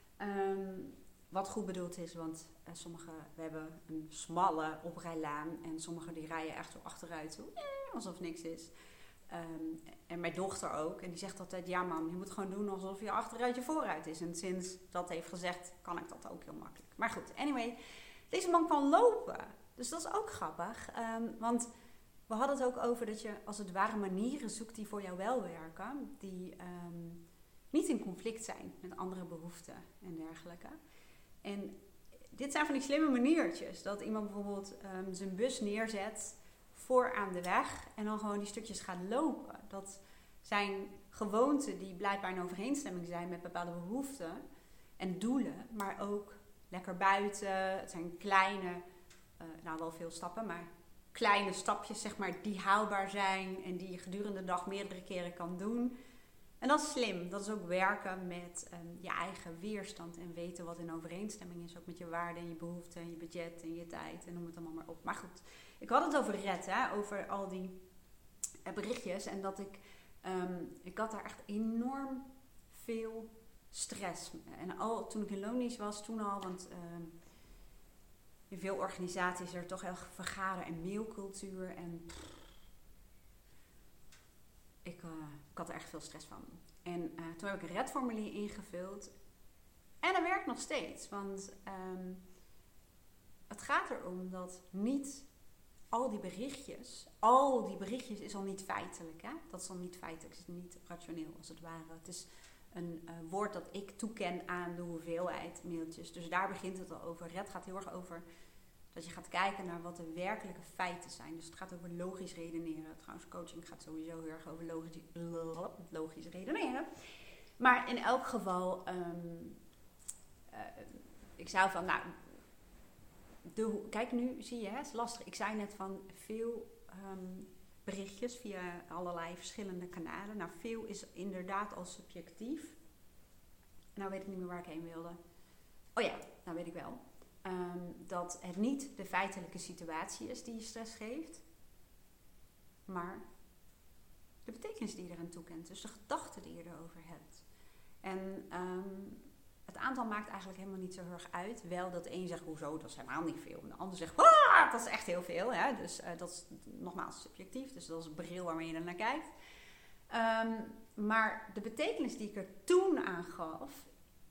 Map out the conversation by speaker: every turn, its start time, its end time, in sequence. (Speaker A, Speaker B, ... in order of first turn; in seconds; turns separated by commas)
Speaker A: 0.2-8.7, Speaker A: 9.3-17.8, Speaker A: 18.3-21.7, Speaker A: 22.3-30.8, Speaker A: 31.4-31.8, Speaker A: 32.3-44.4, Speaker A: 45.0-48.8, Speaker A: 49.4-55.9, Speaker A: 56.6-67.8, Speaker A: 68.7-77.1, Speaker A: 78.5-82.5, Speaker A: 84.8-89.1, Speaker A: 90.0-92.2, Speaker A: 93.5-95.3, Speaker A: 95.9-108.2, Speaker A: 108.9-116.9, Speaker A: 117.6-119.6, Speaker A: 120.5-122.2, Speaker A: 123.5-132.8, Speaker A: 133.9-135.2, Speaker A: 135.9-141.4, Speaker A: 142.9-143.2, Speaker A: 144.4-147.4, Speaker A: 148.0-159.3, Speaker A: 160.1-163.9